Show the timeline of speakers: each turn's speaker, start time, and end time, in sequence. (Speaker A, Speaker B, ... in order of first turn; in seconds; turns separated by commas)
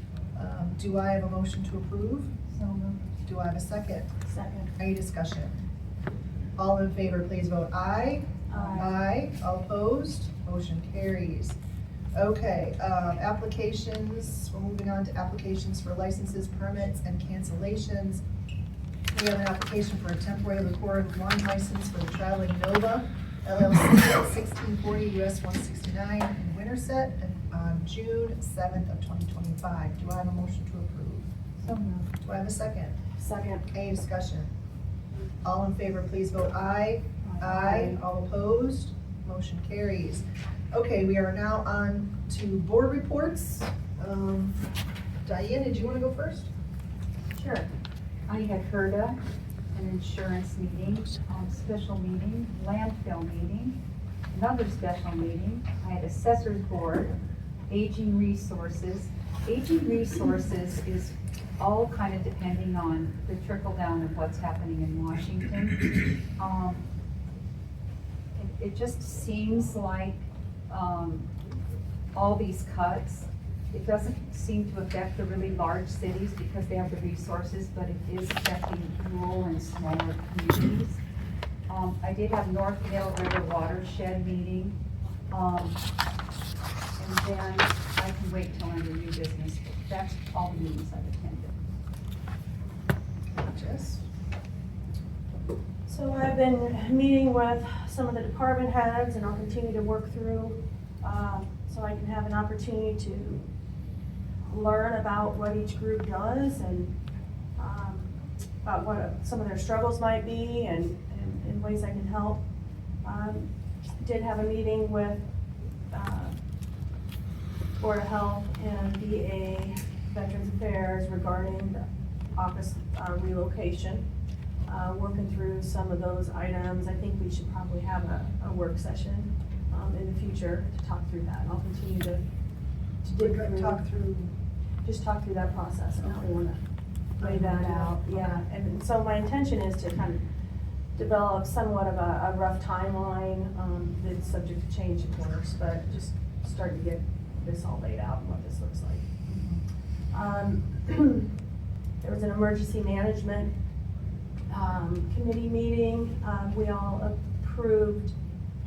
Speaker A: 0.3-2.3, Speaker B: 2.5-3.1, Speaker A: 3.2-4.1, Speaker C: 4.2-4.7, Speaker A: 4.8-5.6, Speaker A: 6.6-11.6, Speaker C: 8.5-9.0, Speaker B: 8.5-8.9, Speaker A: 12.1-18.2, Speaker A: 19.1-31.3, Speaker B: 31.6-32.1, Speaker A: 32.2-33.0, Speaker C: 33.2-33.6, Speaker A: 33.7-34.5, Speaker A: 35.4-44.6, Speaker B: 37.2-38.0, Speaker A: 45.2-46.5, Speaker B: 47.3-47.7, Speaker B: 48.3-49.2, Speaker B: 49.7-53.8, Speaker B: 54.3-57.1, Speaker B: 57.7-66.8, Speaker B: 68.3-71.3, Speaker B: 72.1-81.0, Speaker B: 81.7-84.8, Speaker B: 85.3-85.8, Speaker B: 87.0-91.6, Speaker A: 93.3-94.0, Speaker C: 95.9-103.5, Speaker C: 104.5-106.9, Speaker C: 107.6-112.4, Speaker C: 113.0-115.2, Speaker C: 115.9-116.3, Speaker C: 117.8-124.0, Speaker C: 124.7-132.2, Speaker C: 133.0-133.8, Speaker A: 133.2-134.3, Speaker C: 134.8-136.6, Speaker A: 137.2-138.3, Speaker C: 137.2-140.2, Speaker C: 140.9-149.1, Speaker A: 149.3-149.6, Speaker C: 150.1-151.3, Speaker C: 152.0-153.5, Speaker C: 154.5-158.1